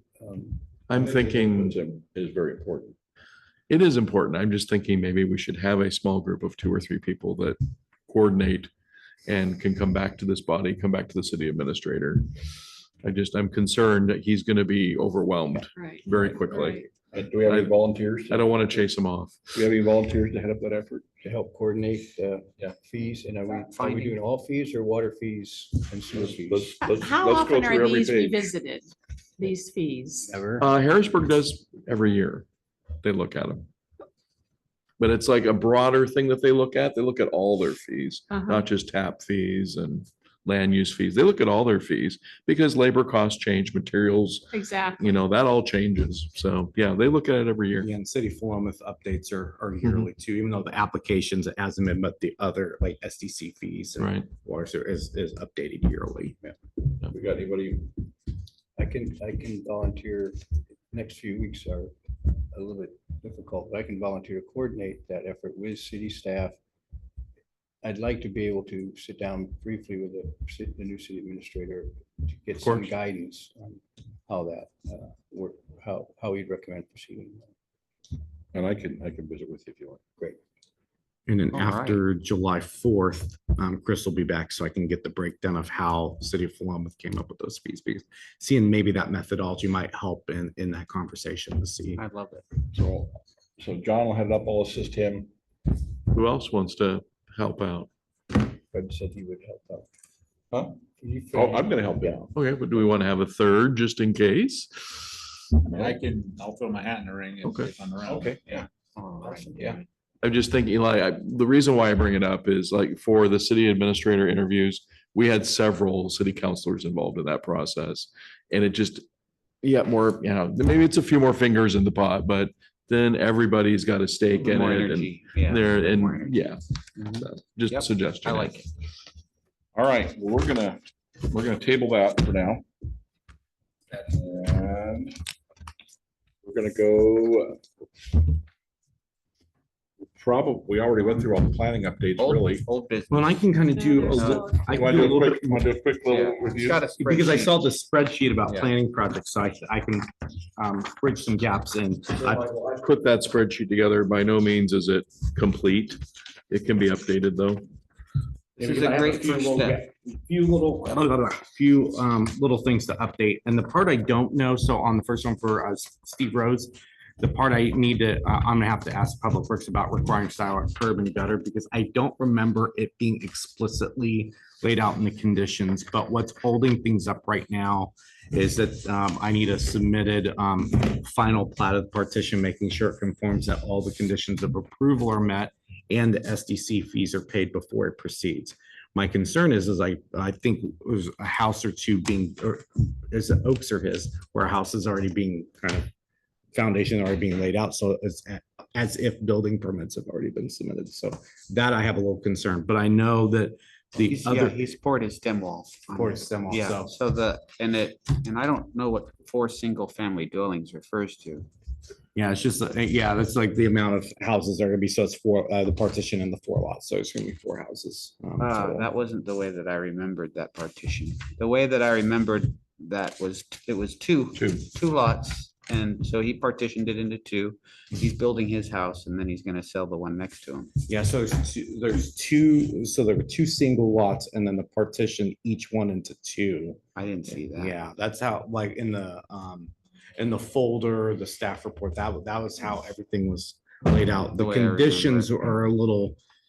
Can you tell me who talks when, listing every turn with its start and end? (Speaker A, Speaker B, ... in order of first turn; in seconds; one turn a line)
Speaker A: 0.2-1.3
Speaker B: 0.9-1.8
Speaker C: 1.0-3.0
Speaker B: 3.7-8.7
Speaker B: 9.3-12.2
Speaker B: 13.0-16.9
Speaker D: 15.7-16.8
Speaker C: 16.2-18.5
Speaker B: 17.4-17.8
Speaker B: 18.3-19.5
Speaker C: 19.5-21.0
Speaker A: 21.2-26.8
Speaker E: 23.5-24.2
Speaker C: 26.1-28.5
Speaker D: 26.8-30.4
Speaker A: 30.2-30.7
Speaker B: 30.6-32.5
Speaker B: 33.0-33.7
Speaker B: 35.0-47.9
Speaker D: 38.3-38.6
Speaker D: 44.5-45.2
Speaker F: 47.8-56.4
Speaker B: 54.0-54.3
Speaker C: 57.0-57.9
Speaker A: 58.8-66.6
Speaker A: 67.8-77.5
Speaker B: 72.6-72.9
Speaker C: 78.5-80.0
Speaker F: 81.3-92.0
Speaker E: 81.5-82.0
Speaker E: 92.0-92.5
Speaker C: 92.7-95.3
Speaker B: 96.1-97.9
Speaker A: 98.7-99.9
Speaker C: 100.5-100.8
Speaker A: 101.0-102.3
Speaker C: 101.3-102.3
Speaker B: 102.3-105.2
Speaker G: 105.7-108.7
Speaker C: 105.7-106.0
Speaker B: 107.4-107.7
Speaker C: 108.0-108.6
Speaker E: 109.0-109.8
Speaker B: 110.2-119.0
Speaker B: 119.6-128.6
Speaker E: 124.4-126.3
Speaker E: 127.0-128.7
Speaker C: 129.8-132.7
Speaker C: 134.0-135.2
Speaker C: 136.4-138.2
Speaker C: 140.1-142.7
Speaker E: 142.2-143.4
Speaker F: 143.1-145.7
Speaker D: 143.8-144.7
Speaker E: 144.1-144.5
Speaker C: 144.7-146.9
Speaker E: 146.1-147.7
Speaker F: 147.0-152.5
Speaker E: 148.5-148.7
Speaker B: 152.2-157.6
Speaker E: 158.6-159.8
Speaker F: 158.6-195.9
Speaker F: 196.5-204.7
Speaker E: 204.0-211.5
Speaker F: 205.9-206.9
Speaker F: 212.2-218.9
Speaker E: 218.4-230.7
Speaker B: 224.4-224.7
Speaker F: 230.9-236.8
Speaker E: 237.0-237.8
Speaker F: 237.4-246.2
Speaker E: 244.4-245.3